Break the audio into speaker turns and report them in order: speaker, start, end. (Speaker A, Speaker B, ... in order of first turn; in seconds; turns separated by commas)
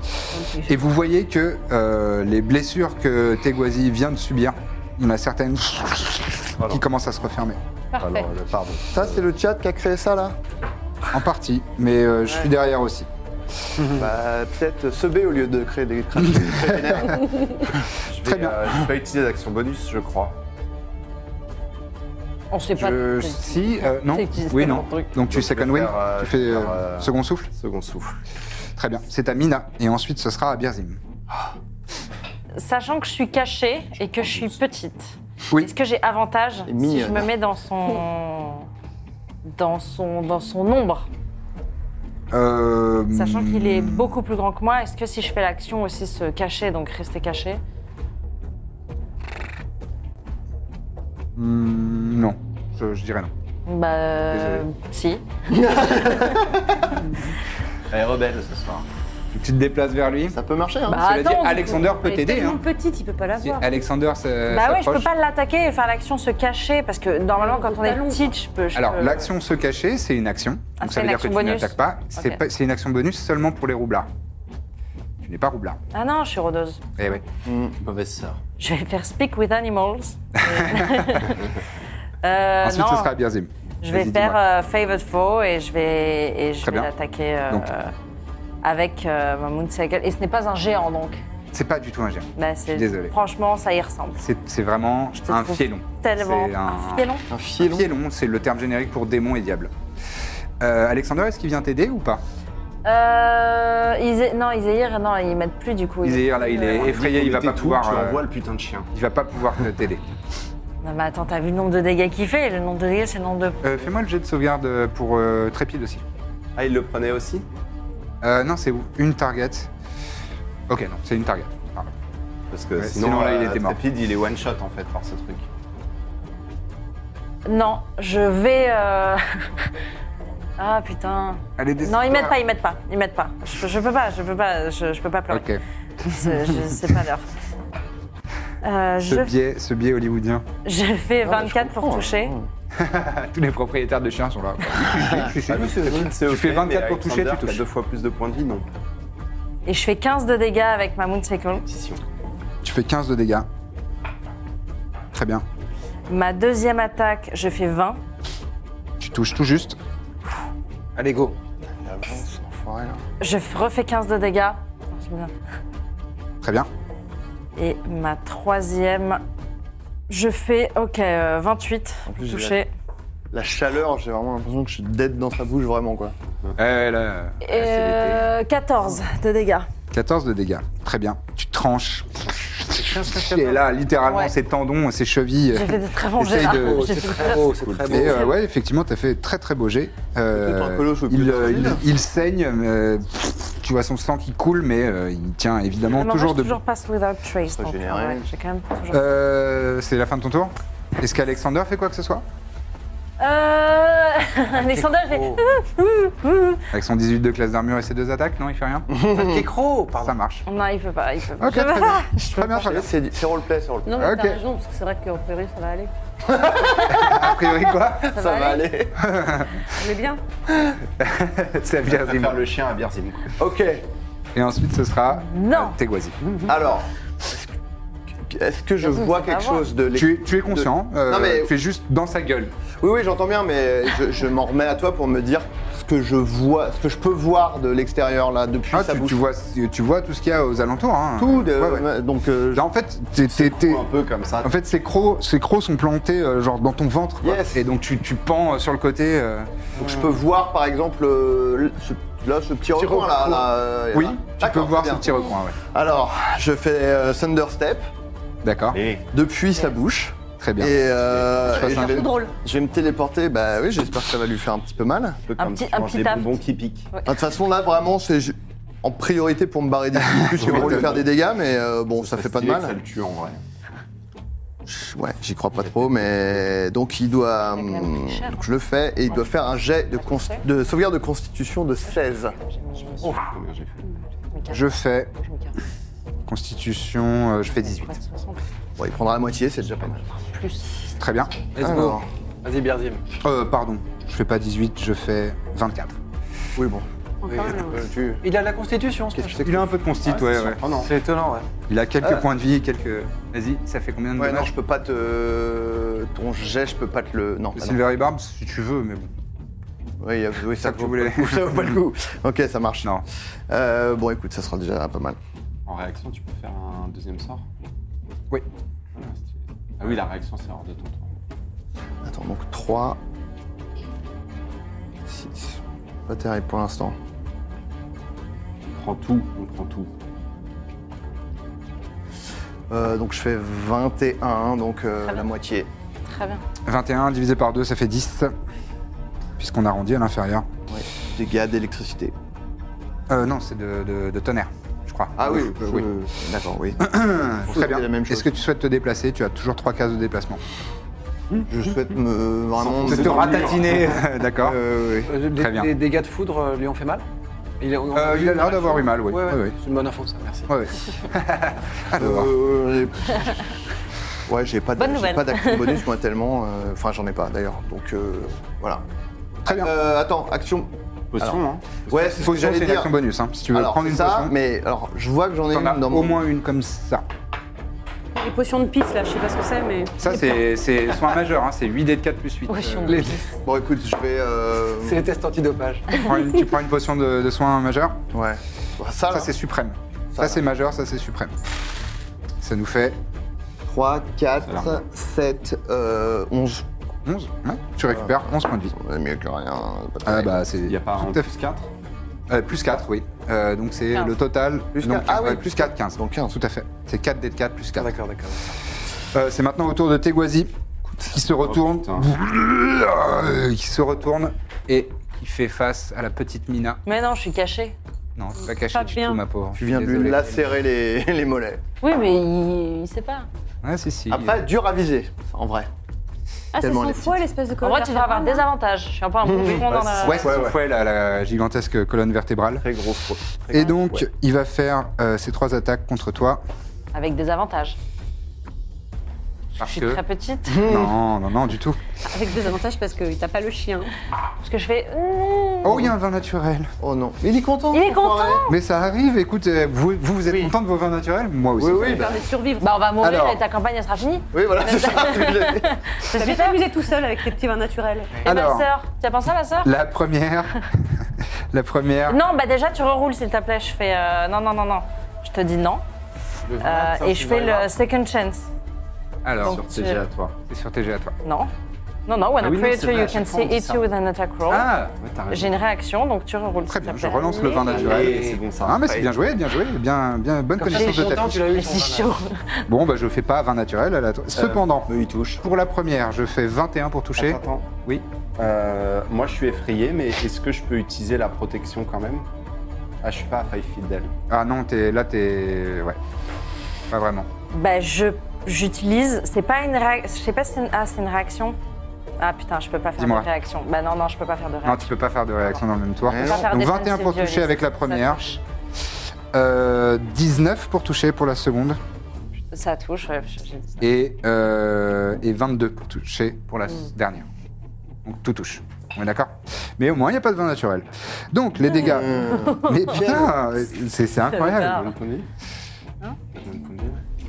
Speaker A: 0.3-0.7, Speaker B: 0.7-7.6, Speaker C: 6.6-6.8, Speaker A: 8.0-8.3, Speaker C: 8.0-9.3, Speaker D: 8.9-10.4, Speaker B: 11.1-13.1, Speaker E: 13.8-14.1, Speaker D: 13.9-17.5, Speaker B: 16.3-17.3, Speaker C: 18.1-20.4, Speaker B: 18.2-18.6, Speaker F: 22.5-25.1, Speaker B: 22.7-27.5, Speaker C: 25.2-28.2, Speaker B: 28.8-31.0, Speaker F: 32.5-38.7, Speaker C: 34.1-34.6, Speaker D: 36.7-37.3, Speaker F: 39.5-41.1, Speaker B: 42.3-44.2, Speaker F: 43.1-47.6, Speaker B: 51.4-53.3, Speaker F: 53.7-55.2, Speaker B: 54.3-54.6, Speaker D: 55.5-56.5, Speaker C: 57.9-58.9, Speaker B: 59.3-60.4, Speaker D: 60.3-61.1, Speaker F: 60.9-61.8, Speaker B: 60.9-62.6, Speaker A: 61.5-63.7, Speaker B: 63.4-65.1, Speaker F: 64.5-69.3, Speaker A: 67.4-68.3, Speaker B: 68.7-74.1, Speaker F: 70.8-72.4, Speaker B: 75.2-75.8, Speaker F: 75.9-77.2, Speaker D: 77.5-77.7, Speaker C: 77.8-78.4, Speaker F: 78.6-81.5, Speaker B: 80.4-81.3, Speaker F: 82.2-83.1, Speaker B: 82.6-84.4, Speaker F: 83.8-87.9, Speaker B: 86.6-86.9, Speaker F: 88.6-91.2, Speaker B: 91.5-93.2, Speaker F: 92.4-94.2, Speaker B: 94.2-99.7, Speaker F: 95.3-97.2, Speaker D: 97.3-97.9, Speaker B: 100.6-102.2, Speaker F: 102.8-106.9, Speaker B: 106.0-108.2, Speaker C: 106.7-108.9, Speaker B: 108.9-110.0, Speaker F: 110.8-113.8, Speaker B: 113.6-116.0, Speaker C: 116.6-117.5, Speaker B: 118.2-119.7, Speaker B: 120.7-121.9, Speaker C: 122.5-125.5, Speaker B: 122.8-123.8, Speaker F: 127.5-129.7, Speaker F: 130.6-137.3, Speaker B: 131.6-132.3, Speaker B: 135.3-135.6, Speaker B: 136.2-136.8, Speaker F: 138.6-139.3, Speaker B: 139.0-140.4, Speaker F: 140.7-142.3, Speaker D: 141.2-142.5, Speaker B: 142.8-147.6, Speaker C: 145.1-148.7, Speaker F: 149.7-151.6, Speaker C: 151.6-152.0, Speaker B: 152.6-153.5, Speaker B: 155.1-155.4, Speaker F: 156.1-158.0, Speaker B: 159.0-159.8, Speaker E: 161.0-161.3, Speaker D: 161.8-163.0, Speaker F: 163.2-165.3, Speaker B: 166.4-166.7, Speaker F: 167.6-169.2, Speaker F: 170.1-172.7, Speaker D: 172.1-172.6, Speaker D: 173.3-176.2, Speaker B: 176.6-177.9, Speaker F: 177.4-179.7, Speaker C: 177.6-178.2, Speaker B: 179.9-187.3, Speaker E: 182.7-183.7, Speaker F: 184.1-184.3, Speaker F: 185.5-188.4, Speaker E: 186.5-188.4, Speaker C: 187.5-188.0, Speaker B: 187.9-196.6, Speaker D: 190.3-191.8, Speaker F: 195.9-199.1, Speaker D: 197.5-198.3, Speaker B: 198.9-202.2, Speaker F: 203.2-206.6, Speaker E: 204.5-205.4, Speaker B: 206.7-209.0, Speaker D: 209.0-209.4, Speaker E: 209.1-210.2, Speaker B: 210.0-210.4, Speaker F: 210.4-212.6, Speaker B: 211.4-212.9, Speaker D: 212.5-214.0, Speaker A: 213.9-215.9, Speaker B: 214.0-214.4, Speaker D: 216.3-217.4, Speaker B: 216.9-218.1, Speaker D: 218.0-219.0, Speaker F: 218.1-218.7, Speaker B: 219.0-219.7, Speaker A: 219.7-220.2, Speaker D: 220.5-220.8, Speaker B: 221.0-222.4, Speaker C: 221.8-223.4, Speaker D: 223.4-223.8, Speaker B: 224.3-226.2, Speaker F: 225.2-225.8, Speaker D: 226.4-227.5, Speaker D: 228.2-231.5, Speaker F: 228.8-229.7, Speaker B: 229.9-232.5, Speaker D: 232.8-239.2, Speaker B: 238.7-241.8, Speaker D: 241.2-242.7, Speaker B: 242.5-243.8, Speaker C: 243.2-244.5, Speaker B: 244.4-249.5, Speaker D: 247.2-247.7, Speaker D: 249.8-255.1, Speaker E: 252.9-253.4, Speaker B: 253.9-255.6, Speaker D: 255.7-257.9, Speaker B: 258.4-258.8, Speaker C: 258.7-259.1, Speaker D: 259.1-265.2, Speaker B: 260.4-260.8, Speaker C: 261.0-261.3, Speaker B: 261.4-262.1, Speaker A: 261.6-262.3, Speaker C: 265.3-266.9, Speaker F: 265.4-266.4, Speaker F: 266.9-267.2, Speaker D: 267.1-272.8, Speaker B: 270.0-271.0, Speaker C: 270.4-271.1, Speaker C: 272.0-273.4, Speaker D: 274.7-282.4, Speaker C: 275.6-276.5, Speaker F: 277.5-278.4, Speaker F: 279.1-280.4, Speaker F: 281.9-283.2, Speaker C: 283.2-284.0, Speaker F: 284.3-285.6, Speaker B: 284.5-285.1, Speaker B: 286.3-287.9, Speaker F: 287.4-288.4, Speaker D: 288.8-290.1, Speaker F: 290.1-290.8, Speaker B: 290.9-291.5, Speaker E: 291.5-293.1, Speaker D: 291.6-292.1, Speaker B: 293.2-295.9, Speaker D: 296.6-296.9, Speaker A: 297.2-297.9, Speaker E: 297.3-297.7, Speaker D: 297.6-298.2, Speaker E: 298.2-299.9, Speaker D: 299.1-299.6, Speaker B: 299.4-300.6, Speaker C: 300.0-300.9, Speaker E: 300.6-301.4, Speaker B: 301.7-304.5, Speaker D: 304.1-307.8, Speaker B: 307.6-309.1, Speaker D: 310.0-313.0, Speaker B: 310.6-311.8, Speaker D: 313.5-315.2, Speaker C: 315.7-317.4, Speaker C: 318.9-321.1, Speaker D: 322.0-323.0, Speaker D: 325.1-326.9, Speaker C: 328.7-329.9, Speaker D: 332.7-335.7, Speaker F: 336.1-336.4, Speaker B: 336.7-338.3, Speaker B: 339.4-340.5, Speaker D: 340.7-342.1, Speaker B: 343.1-345.9, Speaker D: 345.2-348.3, Speaker B: 346.8-350.4, Speaker D: 351.5-355.1, Speaker C: 352.6-353.8, Speaker B: 352.8-354.6, Speaker E: 355.0-357.0, Speaker B: 355.4-355.7, Speaker E: 357.6-360.6, Speaker B: 357.9-359.6, Speaker B: 360.5-362.3, Speaker D: 361.9-363.4, Speaker D: 364.3-368.9, Speaker F: 364.8-365.8, Speaker B: 369.4-369.7, Speaker D: 369.4-372.9, Speaker C: 371.1-372.5, Speaker B: 372.2-374.3, Speaker D: 373.5-376.2, Speaker B: 375.5-377.1, Speaker A: 378.1-380.4, Speaker B: 380.0-383.1, Speaker F: 382.5-383.1, Speaker E: 382.8-383.1, Speaker D: 383.4-385.1, Speaker E: 384.8-386.1, Speaker B: 386.0-388.0, Speaker D: 388.1-389.3, Speaker B: 389.1-391.3, Speaker D: 390.1-390.4, Speaker B: 392.4-393.0, Speaker D: 393.6-396.7, Speaker C: 394.4-394.8, Speaker B: 397.1-398.7, Speaker D: 397.9-400.5, Speaker B: 400.1-401.3, Speaker C: 400.6-401.7, Speaker B: 402.3-408.0, Speaker D: 404.7-406.4, Speaker E: 407.8-408.6, Speaker B: 409.1-410.5, Speaker D: 410.9-411.2, Speaker B: 411.1-416.8, Speaker C: 411.4-412.1, Speaker F: 416.9-417.8, Speaker B: 418.2-420.3, Speaker A: 418.5-419.2, Speaker D: 419.6-421.6, Speaker F: 421.8-423.3, Speaker B: 423.6-424.4, Speaker D: 424.1-425.7, Speaker A: 426.5-428.4, Speaker D: 426.6-427.2, Speaker F: 427.6-430.4, Speaker C: 429.3-430.6, Speaker B: 430.0-432.7, Speaker C: 432.6-434.1, Speaker B: 433.5-436.4, Speaker F: 436.9-437.8, Speaker B: 439.6-440.0, Speaker F: 439.6-440.7, Speaker D: 440.5-440.9, Speaker B: 440.6-441.8, Speaker A: 442.0-443.9, Speaker F: 444.4-445.9, Speaker B: 445.6-446.7, Speaker D: 446.8-448.4, Speaker F: 447.7-448.6, Speaker B: 448.5-452.1, Speaker D: 451.6-452.2, Speaker A: 451.7-452.7, Speaker F: 452.6-456.6, Speaker B: 453.0-453.4, Speaker D: 454.3-455.8, Speaker A: 456.1-458.2, Speaker B: 458.2-458.7, Speaker F: 458.2-459.7, Speaker B: 459.6-462.2, Speaker F: 462.1-465.8, Speaker E: 466.4-467.7, Speaker F: 466.6-468.5, Speaker B: 469.2-469.6, Speaker F: 469.4-470.0, Speaker C: 469.4-470.4, Speaker B: 470.4-471.1, Speaker F: 471.2-471.5, Speaker F: 472.1-474.7, Speaker C: 472.4-473.9, Speaker B: 474.5-474.9, Speaker C: 474.6-475.6, Speaker F: 475.3-478.0, Speaker B: 476.7-481.5, Speaker C: 477.6-479.2, Speaker E: 477.7-478.4, Speaker E: 480.6-482.1, Speaker F: 480.7-482.7, Speaker B: 482.7-484.9, Speaker C: 484.4-485.4, Speaker B: 485.4-488.1, Speaker C: 487.2-487.7, Speaker C: 488.4-492.3, Speaker C: 493.0-494.1, Speaker B: 494.3-496.0, Speaker B: 496.9-497.3, Speaker F: 497.5-501.6, Speaker F: 502.2-505.6, Speaker B: 503.0-503.3, Speaker B: 504.6-508.2, Speaker D: 506.0-506.5, Speaker F: 506.1-508.4, Speaker B: 509.3-511.8, Speaker F: 512.5-513.9, Speaker B: 513.8-517.3, Speaker B: 518.0-524.9, Speaker D: 521.7-523.3, Speaker C: 524.6-525.3, Speaker C: 526.3-527.0